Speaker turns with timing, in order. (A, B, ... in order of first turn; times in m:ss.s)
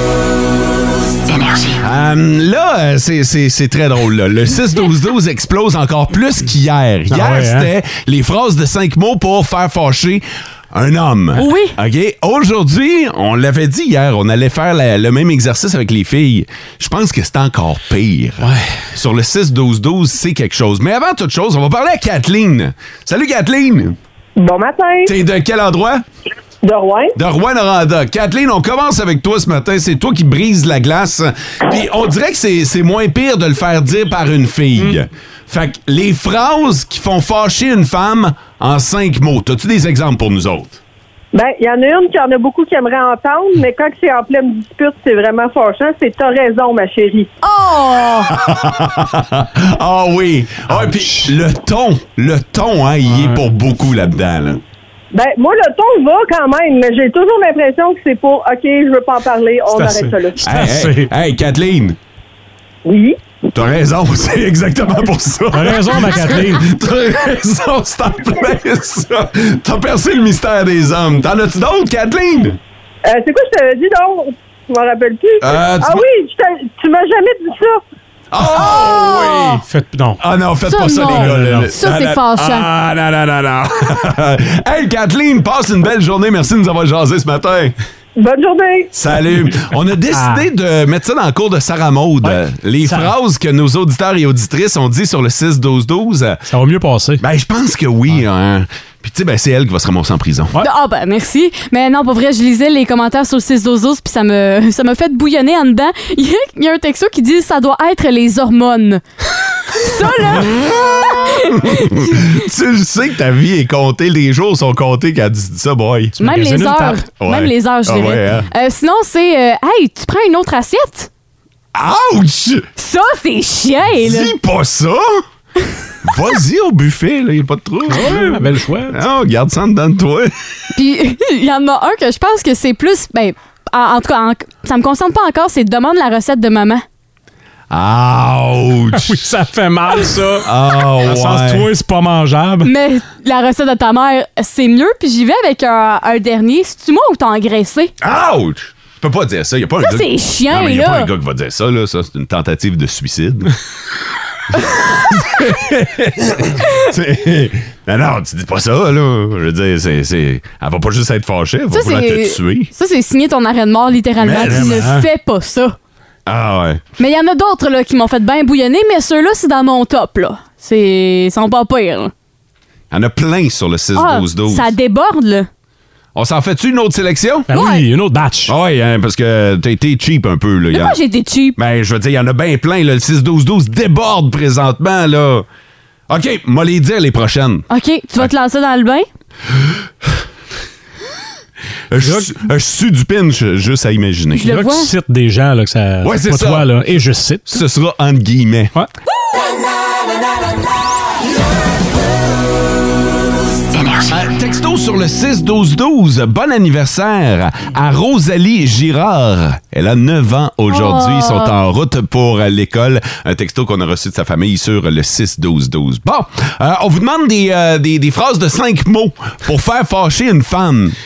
0:01.8-0:24.0 A
0:07.1-0:07.7 B
0:11.4-0:11.8 C
0:18.4-0:18.7 B
0:24.4-0:25.1 D
0:25.0-0:26.0 A
0:26.6-0:27.1 D
0:27.1-0:40.8 A
0:41.3-0:47.3 D
0:47.4-0:48.3 C
0:48.3-0:54.6 A
0:50.7-0:51.3 B
0:53.1-0:53.4 B
0:55.1-1:00.4 D
0:59.7-1:01.1 B
1:00.4-1:02.0 A
1:02.8-1:03.2 D
1:03.5-1:12.6 A
1:05.5-1:06.7 B
1:13.0-1:17.8 D
1:15.4-1:16.0 A
1:18.3-1:19.6 A
1:18.6-1:19.6 C
1:19.7-1:20.2 B
1:20.2-1:27.7 A
1:20.6-1:22.6 C
1:21.0-1:21.7 B
1:28.2-1:28.9 D
1:28.9-1:36.4 A
1:30.1-1:30.5 B
1:32.2-1:33.1 B
1:36.5-1:37.2 B
1:37.2-1:40.5 A
1:40.6-1:49.0 C
1:49.6-1:52.2 C
1:50.4-1:56.2 A
1:56.2-1:57.0 B
1:56.2-2:01.1 C
1:57.2-1:58.5 A
2:01.7-2:02.7 A
2:02.8-2:04.3 C
2:04.0-2:05.2 A
2:06.0-2:10.3 A
2:07.9-2:09.0 B
2:10.8-2:16.8 C
2:17.7-2:19.2 A
2:19.0-2:20.5 B
2:20.4-2:21.6 A
2:21.0-2:22.7 B
2:22.6-2:27.9 C
2:28.0-2:33.5 A
2:29.8-2:31.1 C
2:34.9-2:42.7 A
2:41.7-2:45.8 C
2:44.2-2:44.9 A
2:44.4-2:45.1 B
2:46.2-2:46.8 A
2:47.0-2:52.1 C
2:52.9-2:54.7 A
2:53.9-2:55.5 C
2:56.1-2:57.5 A
2:57.5-2:58.5 B
2:57.5-2:57.8 C
2:58.5-3:01.0 A
3:00.7-3:01.6 C
3:01.6-3:05.5 A
3:06.1-3:07.7 A
3:07.7-3:09.1 C
3:11.9-3:14.5 A
3:12.0-3:12.4 B
3:14.4-3:14.9 C
3:14.4-3:17.6 B
3:16.0-3:16.7 A
3:17.5-3:18.7 A
3:24.1-3:41.0 A
3:30.7-3:31.5 C